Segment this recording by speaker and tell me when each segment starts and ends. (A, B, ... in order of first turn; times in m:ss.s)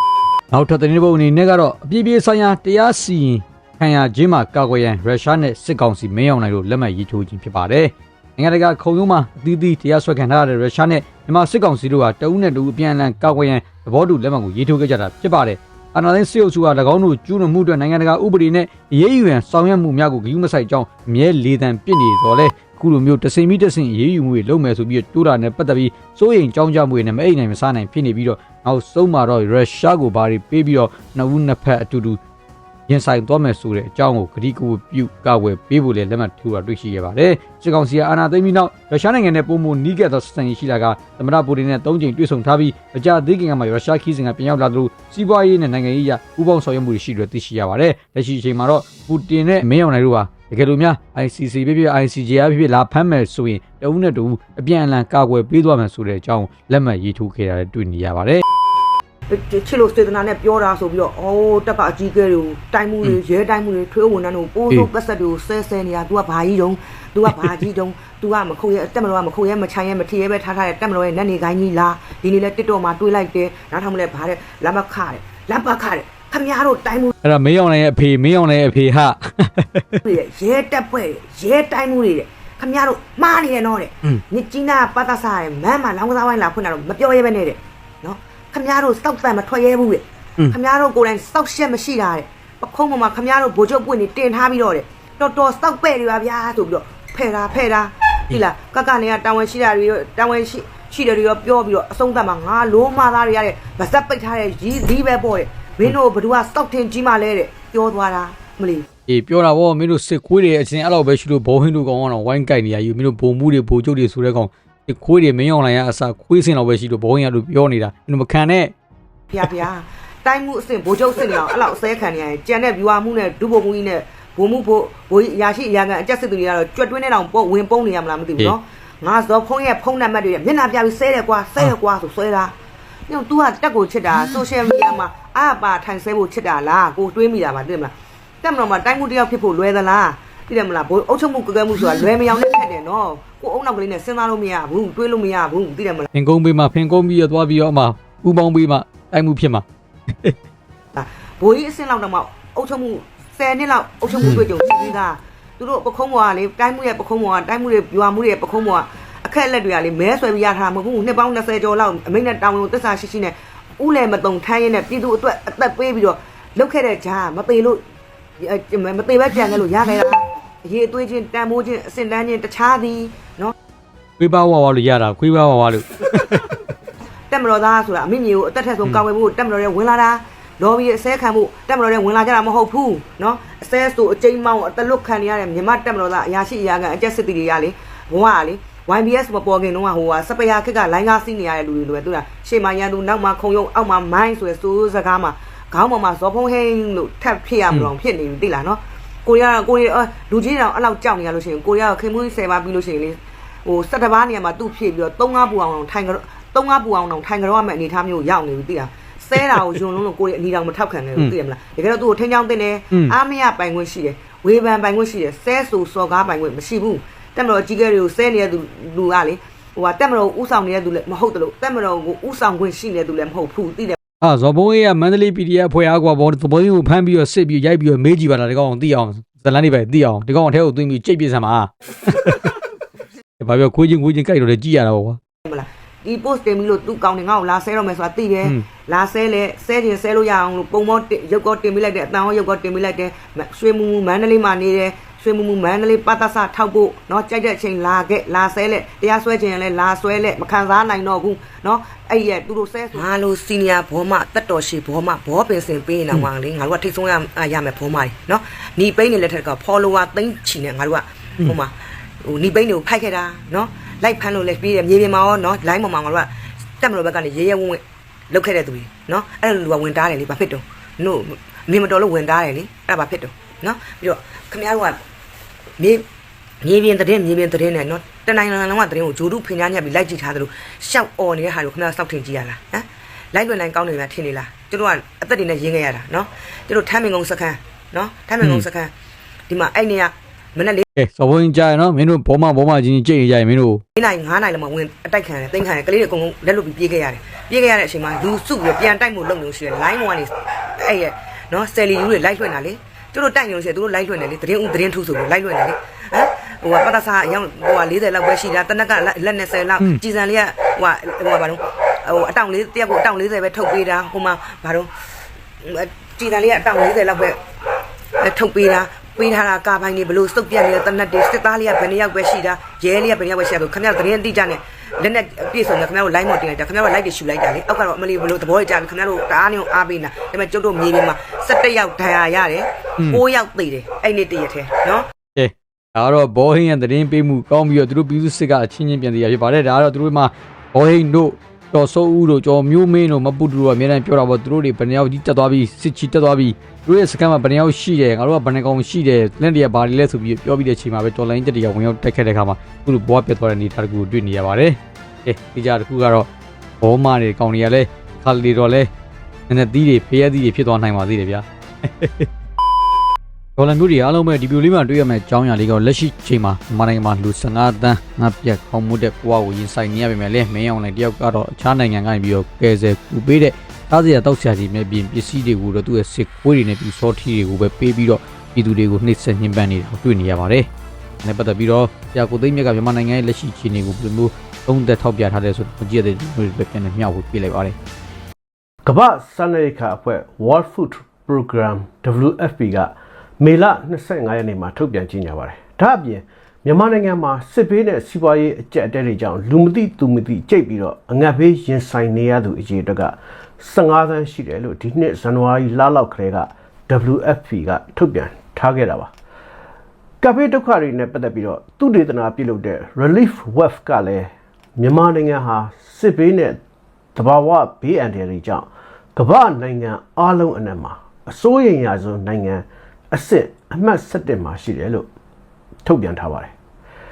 0:00.5-0:32.2 A
0:32.9-0:58.4 A
0:59.3-1:17.1 B
1:17.2-1:20.0 A
1:20.0-1:48.9 B
1:49.1-1:58.7 A
1:59.3-2:12.5 B
2:13.1-2:26.1 B
2:26.1-2:30.4 A
2:31.0-2:47.8 B
2:48.4-2:53.5 B
2:54.2-2:56.6 A
2:57.3-3:44.0 B
3:44.2-3:52.6 A
3:53.4-3:55.2 A
3:55.4-4:35.0 B
4:35.8-4:36.1 B
4:36.6-4:48.9 B
4:49.5-4:50.8 B
4:51.0-4:53.8 A
4:54.0-5:14.9 B
5:15.6-5:17.4 B
5:18.2-5:35.1 B
5:35.4-5:56.3 A
5:56.8-5:58.9 A
5:59.5-6:02.3 A
6:03.6-6:20.7 A
6:21.2-6:27.8 A
6:28.8-6:49.1 C
6:50.2-6:56.6 C
6:57.2-7:05.1 C
7:05.8-7:06.5 C